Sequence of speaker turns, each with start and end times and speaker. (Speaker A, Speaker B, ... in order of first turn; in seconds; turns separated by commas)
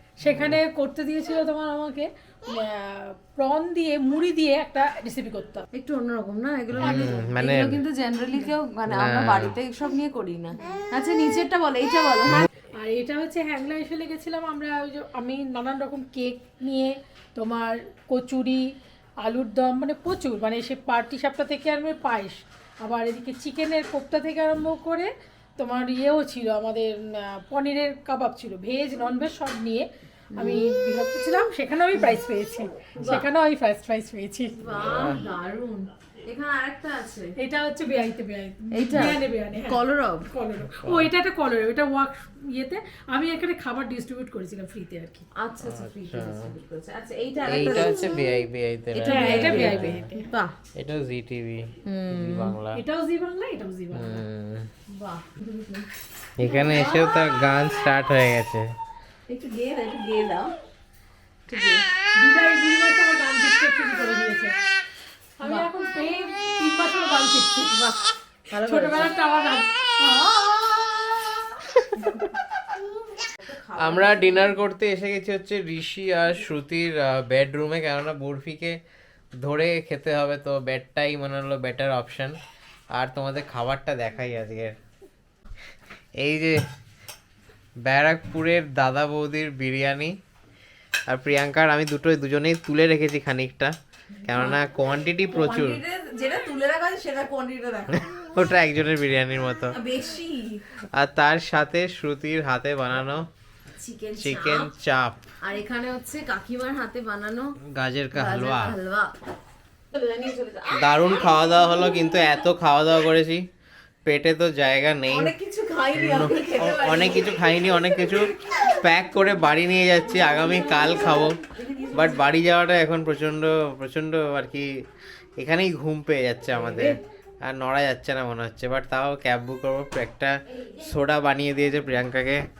Speaker A: 0.2-5.6, Speaker B: 0.2-0.6, Speaker C: 5.7-12.5, Speaker B: 6.7-7.8, Speaker A: 6.8-7.2, Speaker B: 8.9-9.5, Speaker A: 12.7-34.6, Speaker C: 30.3-30.6, Speaker C: 33.0-33.3, Speaker C: 34.5-37.3, Speaker B: 34.7-35.2, Speaker A: 37.4-45.2, Speaker C: 38.7-40.3, Speaker B: 40.8-41.1, Speaker C: 45.4-48.4, Speaker B: 45.6-46.5, Speaker B: 47.5-50.1, Speaker C: 48.9-50.5, Speaker A: 49.0-50.3, Speaker B: 50.8-52.8, Speaker C: 51.8-52.6, Speaker A: 52.7-54.2, Speaker B: 53.9-54.7, Speaker C: 54.9-55.9, Speaker B: 56.4-58.7, Speaker C: 56.4-57.2, Speaker C: 59.3-60.5, Speaker C: 61.5-61.9, Speaker A: 62.1-64.5, Speaker A: 65.4-67.9, Speaker C: 65.4-65.7, Speaker C: 68.5-69.2, Speaker A: 68.5-71.5, Speaker C: 73.4-74.5, Speaker B: 73.8-78.8, Speaker B: 79.4-82.4, Speaker B: 82.9-84.8, Speaker B: 86.2-86.6, Speaker B: 87.8-90.2, Speaker B: 91.1-93.7, Speaker B: 94.2-95.8, Speaker C: 94.3-94.6, Speaker C: 95.3-98.1, Speaker B: 98.2-99.7, Speaker C: 99.7-100.6, Speaker B: 100.9-103.3, Speaker C: 103.7-104.7, Speaker B: 104.2-105.2, Speaker C: 105.4-107.6, Speaker B: 107.7-108.8, Speaker C: 108.1-109.1, Speaker C: 109.9-112.0, Speaker B: 110.8-113.5, Speaker B: 114.0-115.3, Speaker C: 115.1-118.7, Speaker B: 115.9-121.4, Speaker C: 120.2-122.2, Speaker B: 121.9-124.8, Speaker B: 125.4-132.4, Speaker C: 126.5-127.0